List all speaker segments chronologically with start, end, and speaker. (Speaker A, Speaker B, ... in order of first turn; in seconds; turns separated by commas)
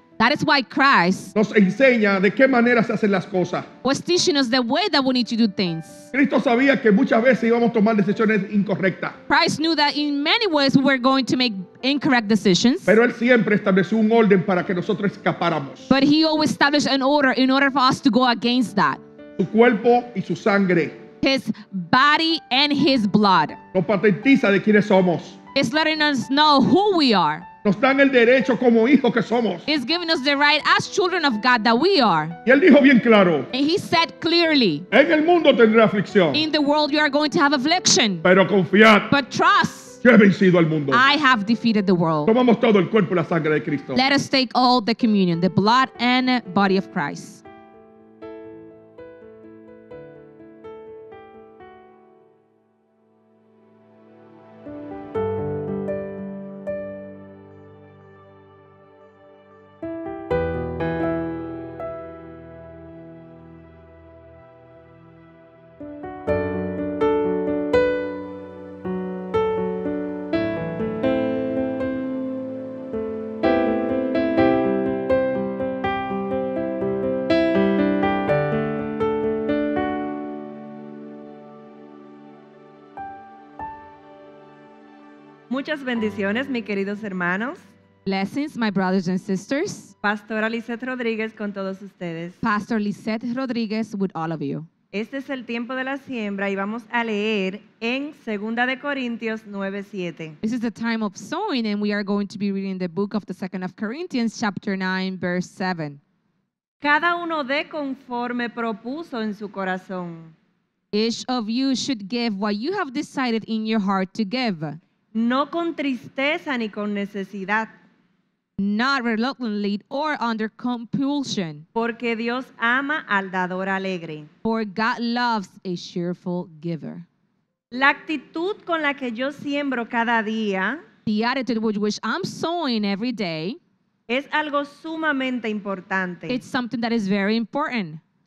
Speaker A: 0.2-1.3, Speaker B: 1.3-3.7, Speaker A: 3.8-6.1, Speaker B: 6.1-9.2, Speaker A: 9.3-12.9, Speaker B: 12.9-15.9, Speaker A: 15.9-19.0, Speaker B: 19.4-21.0, Speaker A: 21.2-23.6, Speaker B: 23.7-25.4, Speaker A: 25.5-27.4, Speaker B: 27.6-29.7, Speaker A: 29.7-32.4, Speaker B: 32.4-33.5, Speaker A: 33.5-34.9, Speaker B: 34.9-36.4, Speaker A: 36.3-38.2, Speaker B: 38.2-39.1, Speaker A: 39.1-40.0, Speaker B: 40.0-41.0, Speaker A: 40.9-42.3, Speaker B: 42.3-44.0, Speaker A: 43.9-47.4, Speaker C: 85.5-87.6, Speaker A: 88.0-89.9, Speaker C: 90.0-92.4, Speaker A: 92.4-94.7, Speaker C: 94.9-100.3, Speaker A: 100.4-106.0, Speaker C: 106.8-110.3, Speaker A: 110.9-114.8, Speaker C: 115.1-117.7, Speaker A: 118.6-121.6, Speaker C: 121.7-124.3, Speaker A: 124.4-127.0, Speaker C: 127.7-130.8, Speaker A: 131.1-133.6, Speaker C: 134.1-136.4, Speaker A: 136.3-138.0